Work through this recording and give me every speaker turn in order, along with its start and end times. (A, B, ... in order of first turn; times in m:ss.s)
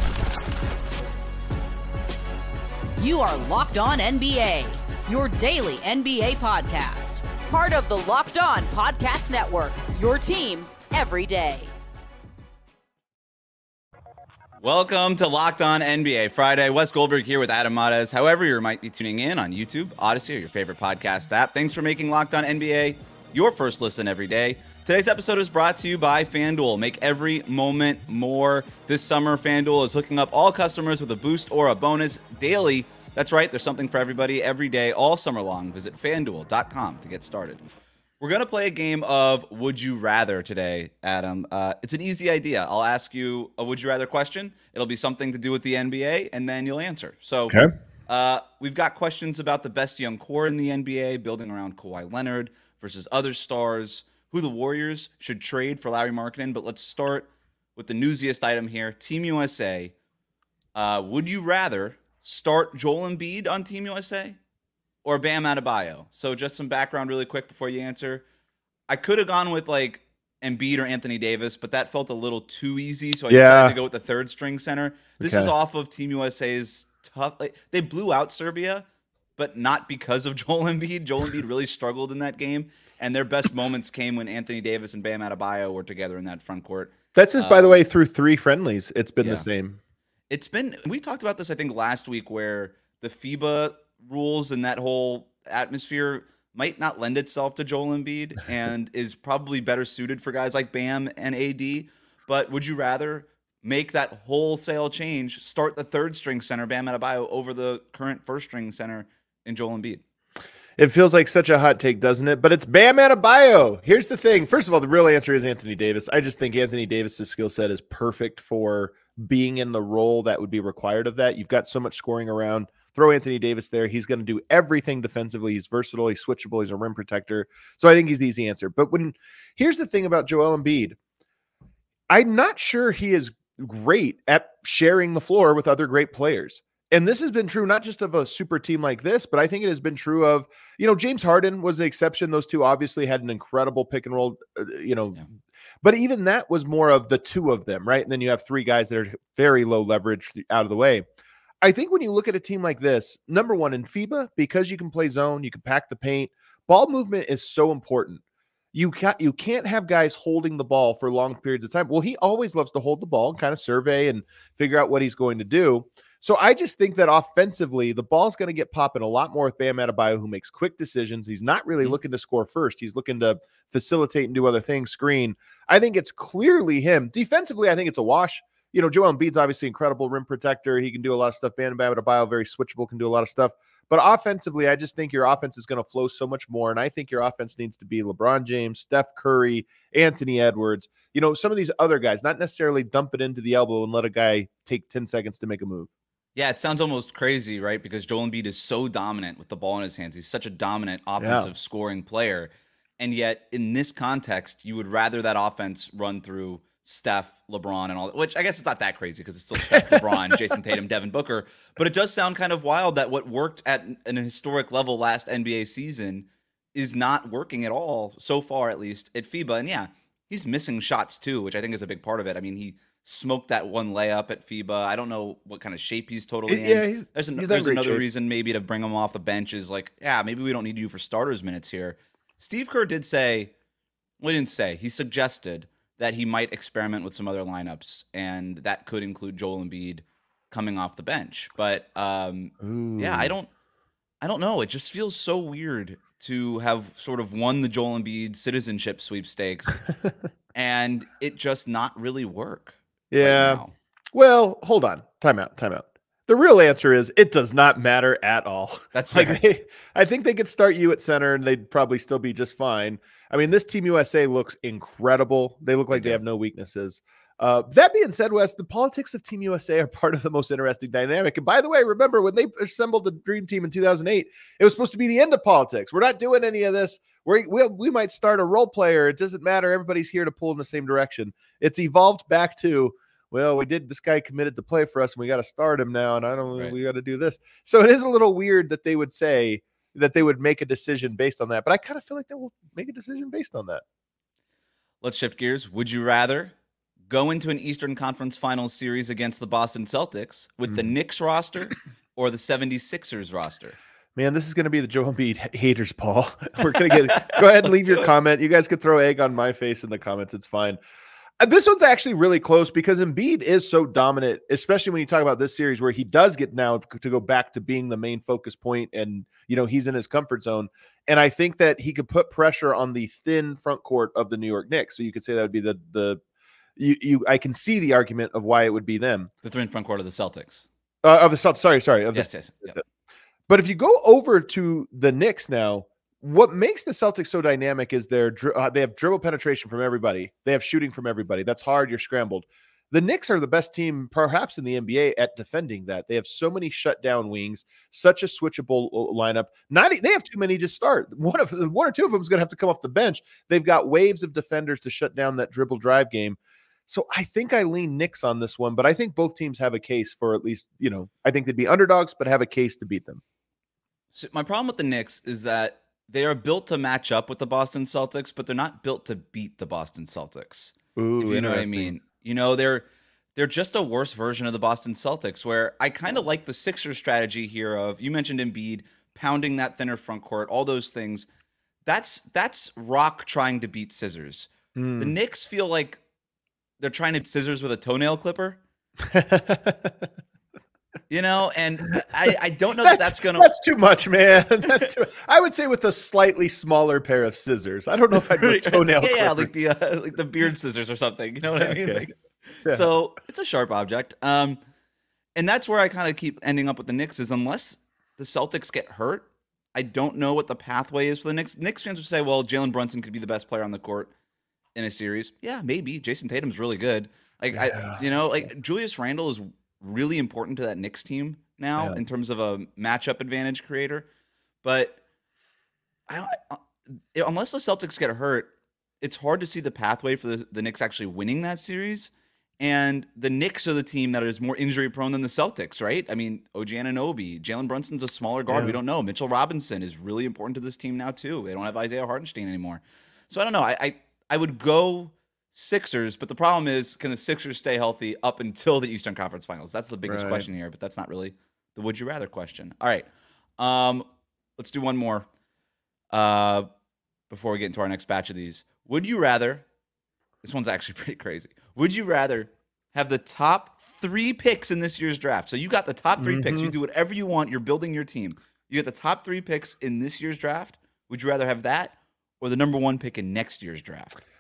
0:03.0-0:11.7 A
0:14.6-0:37.6 B
0:38.2-0:59.9 B
1:00.8-1:04.4 B
1:05.0-1:08.2 B
1:08.9-1:18.8 B
1:13.3-1:13.8 C
1:15.2-1:15.5 C
1:19.4-1:27.8 B
1:27.2-1:29.8 C
1:29.2-1:29.5 B
1:30.3-1:50.0 B
1:50.8-2:11.0 C
2:12.1-2:25.2 C
2:25.8-2:31.0 C
2:31.6-2:38.2 C
2:38.7-3:15.9 C
3:16.4-3:53.5 B
3:21.2-3:21.5 C
3:29.7-3:30.2 C
3:46.5-3:48.0 C
3:54.2-4:03.5 B
4:02.6-4:03.4 C
4:04.2-4:09.8 B
4:10.5-4:13.7 B
4:13.1-4:13.6 C
4:14.1-4:53.8 C
4:18.9-4:19.4 B
4:25.9-4:26.2 B
4:55.0-4:56.5 B
4:57.1-5:03.8 B
5:04.2-5:10.8 C
5:06.9-5:07.4 B
5:11.4-5:26.2 C
5:26.8-5:29.3 C
5:29.4-5:30.7 B
5:31.0-5:32.8 C
5:32.1-5:32.8 B
5:33.5-6:03.2 C
6:04.1-6:12.8 B
6:11.0-6:11.9 C
6:13.4-6:21.3 B
6:21.8-6:26.0 B
6:24.8-6:25.2 C
6:26.8-6:28.6 B
6:29.0-6:30.1 C
6:31.1-6:33.5 B
6:32.8-6:39.6 C
6:38.2-6:44.6 B
6:41.6-6:42.1 C
6:45.4-6:54.1 B
6:54.8-7:04.1 B
6:57.5-6:58.5 C
7:04.6-7:05.0 B
7:06.1-7:33.1 B
7:18.5-7:18.8 C
7:30.0-7:30.5 C
7:33.6-7:35.3 B
7:36.1-7:36.7 B
7:37.3-7:39.6 B
7:40.4-7:54.2 B
7:46.2-7:46.7 C